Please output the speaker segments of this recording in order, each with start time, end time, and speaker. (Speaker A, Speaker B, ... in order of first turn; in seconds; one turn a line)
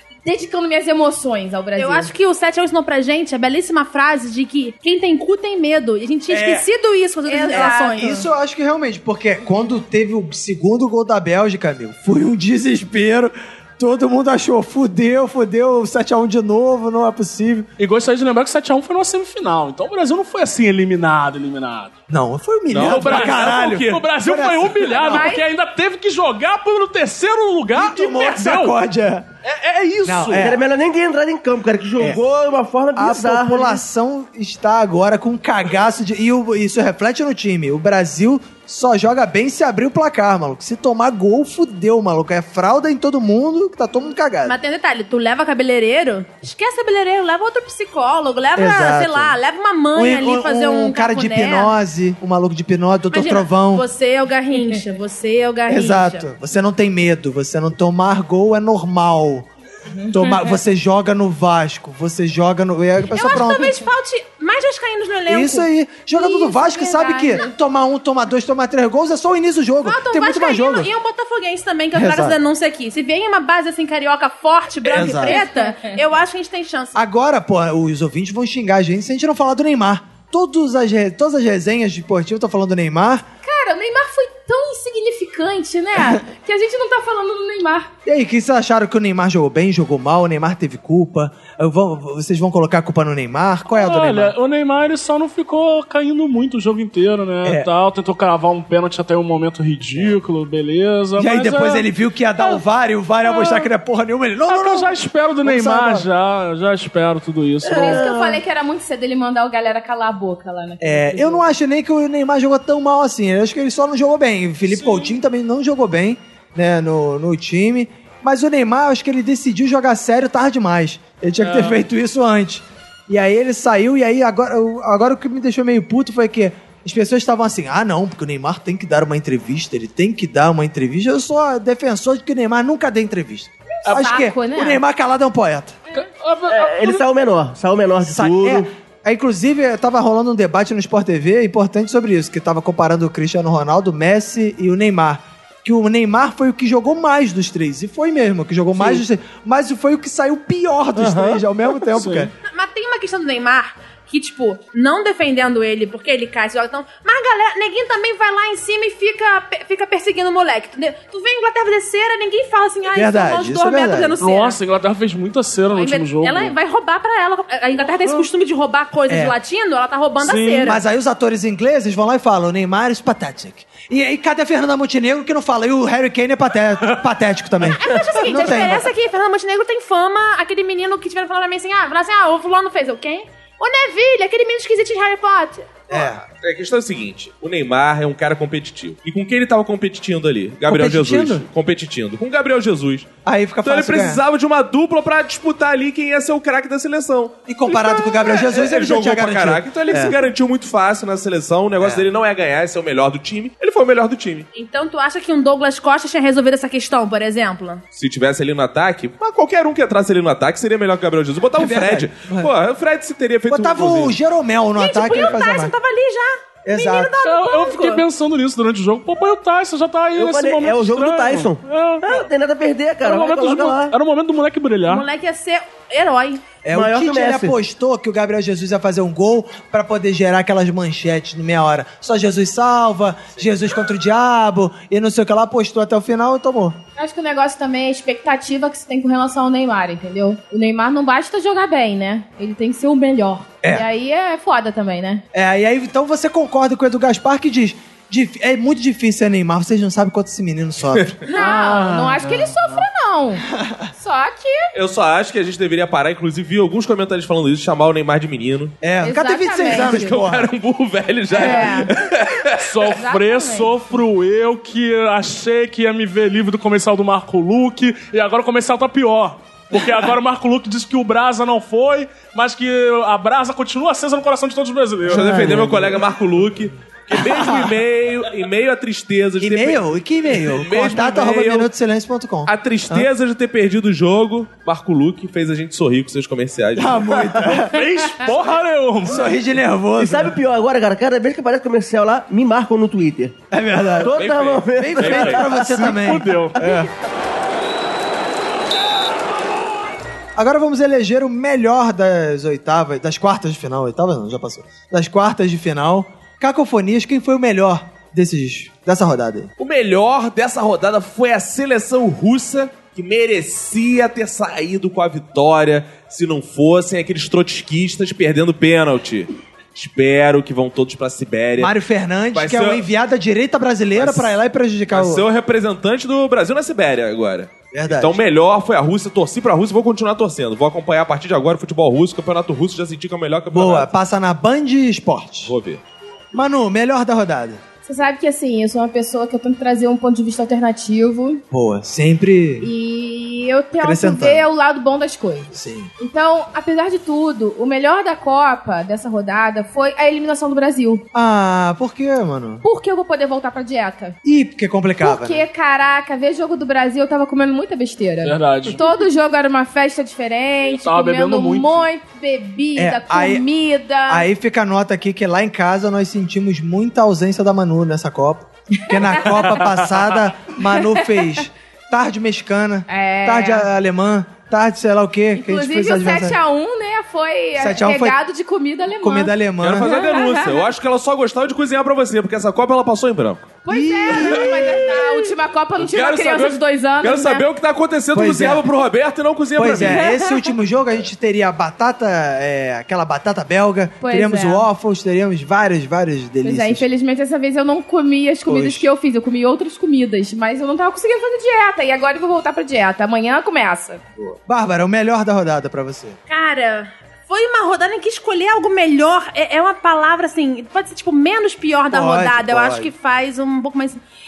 Speaker A: 0.2-2.1
Speaker B: 1.8-8.2
Speaker C: 6.3-6.7
Speaker A: 7.3-8.2
Speaker C: 7.5-17.7
Speaker D: 17.8-21.9
Speaker C: 22.1-25.3
Speaker E: 22.7-23.8
Speaker D: 22.8-28.8
Speaker A: 25.0-25.4
Speaker C: 27.7-29.3
Speaker D: 29.4-30.5
Speaker C: 30.0-30.6
Speaker F: 30.4-33.8
Speaker C: 33.0-44.6
Speaker B: 44.5-51.7
Speaker C: 48.5-49.4
Speaker C: 50.0-53.8
Speaker B: 53.1-56.3
Speaker C: 55.7-59.5
Speaker C: 60.1-63.9
Speaker B: 63.1-65.7
Speaker C: 65.3-70.9
Speaker A: 66.1-67.5
Speaker B: 69.8-77.0
Speaker C: 72.0-72.4
Speaker C: 74.8-75.4
Speaker A: 75.0-76.0
Speaker C: 77.0-83.2
Speaker A: 83.4-87.9
Speaker C: 88.0-94.3
Speaker D: 93.7-101.9
Speaker C: 97.4-97.7
Speaker C: 101.2-106.1
Speaker D: 103.2-103.7
Speaker D: 104.5-108.1
Speaker F: 107.6-108.4
Speaker A: 107.7-111.5
Speaker C: 110.8-135.8
Speaker D: 114.7-115.1
Speaker D: 121.4-121.8
Speaker A: 133.8-134.8
Speaker D: 135.9-137.1
Speaker F: 136.5-138.7
Speaker C: 138.0-152.3
Speaker F: 148.8-149.0
Speaker F: 150.9-151.4
Speaker D: 151.9-152.3
Speaker B: 152.4-164.6
Speaker C: 162.9-164.1
Speaker D: 164.2-166.6
Speaker B: 165.7-170.8
Speaker C: 169.1-169.3
Speaker D: 170.2-170.8
Speaker C: 170.6-178.9
Speaker B: 177.6-186.1
Speaker C: 185.9-186.2
Speaker E: 186.3-193.1
Speaker C: 190.7-191.4
Speaker C: 193.2-194.2
Speaker E: 193.6-204.5
Speaker C: 197.5-200.2
Speaker C: 201.8-202.1
Speaker B: 204.6-207.8
Speaker E: 207.9-214.2
Speaker C: 211.6-212.5
Speaker C: 213.5-215.7
Speaker B: 214.8-218.0
Speaker C: 216.7-217.1
Speaker D: 217.2-222.3
Speaker F: 220.1-223.9
Speaker D: 223.0-225.1
Speaker B: 224.9-226.4
Speaker C: 226.6-236.8
Speaker F: 226.7-227.6
Speaker A: 237.0-245.2
Speaker C: 245.3-251.2
Speaker E: 251.0-251.3
Speaker B: 251.3-251.6
Speaker A: 251.3-254.7
Speaker D: 251.6-252.4
Speaker C: 253.5-253.9
Speaker E: 254.7-258.8
Speaker C: 258.8-260.5
Speaker A: 259.0-260.1
Speaker E: 259.7-262.9
Speaker A: 261.3-261.9
Speaker C: 261.4-261.7
Speaker D: 262.6-275.6
Speaker A: 262.9-263.7
Speaker E: 275.1-281.7
Speaker F: 275.1-276.0
Speaker C: 275.1-275.6
Speaker D: 277.3-277.7
Speaker C: 279.4-283.1
Speaker E: 282.4-287.1
Speaker C: 286.7-287.9
Speaker F: 287.1-287.4
Speaker D: 287.4-289.3
Speaker C: 289.1-290.4
Speaker F: 290.0-293.4
Speaker C: 293.5-294.2
Speaker F: 294.0-296.7
Speaker E: 294.1-295.4
Speaker C: 294.7-296.9
Speaker D: 295.6-296.6
Speaker C: 300.4-309.5
Speaker E: 309.6-321.7
Speaker C: 321.6-325.2
Speaker E: 322.3-322.8
Speaker E: 324.0-324.3
Speaker E: 324.9-333.9
Speaker C: 327.7-328.2
Speaker C: 333.5-335.5
Speaker E: 335.4-335.8
Speaker C: 336.3-337.6
Speaker A: 337.8-341.4
Speaker C: 341.5-342.7
Speaker A: 342.6-351.0
Speaker C: 343.8-344.5
Speaker C: 345.5-345.9
Speaker C: 351.1-352.6
Speaker A: 352.6-354.1
Speaker C: 354.2-355.4
Speaker A: 355.0-364.3
Speaker D: 358.2-358.8
Speaker D: 360.7-361.9
Speaker C: 362.8-363.4
Speaker C: 364.1-376.4
Speaker A: 368.8-369.6
Speaker A: 370.7-371.3
Speaker A: 372.9-373.7
Speaker A: 375.3-380.7
Speaker C: 377.6-378.2
Speaker C: 379.0-379.9
Speaker E: 379.6-383.5
Speaker A: 383.6-387.4
Speaker C: 383.7-384.8
Speaker E: 384.2-385.2
Speaker E: 385.8-390.1
Speaker C: 388.1-388.6
Speaker C: 389.6-396.8
Speaker A: 389.9-390.5
Speaker A: 394.0-394.7
Speaker A: 396.4-404.1
Speaker C: 398.5-398.9
Speaker C: 404.4-406.2
Speaker B: 406.3-414.0
Speaker C: 411.9-412.9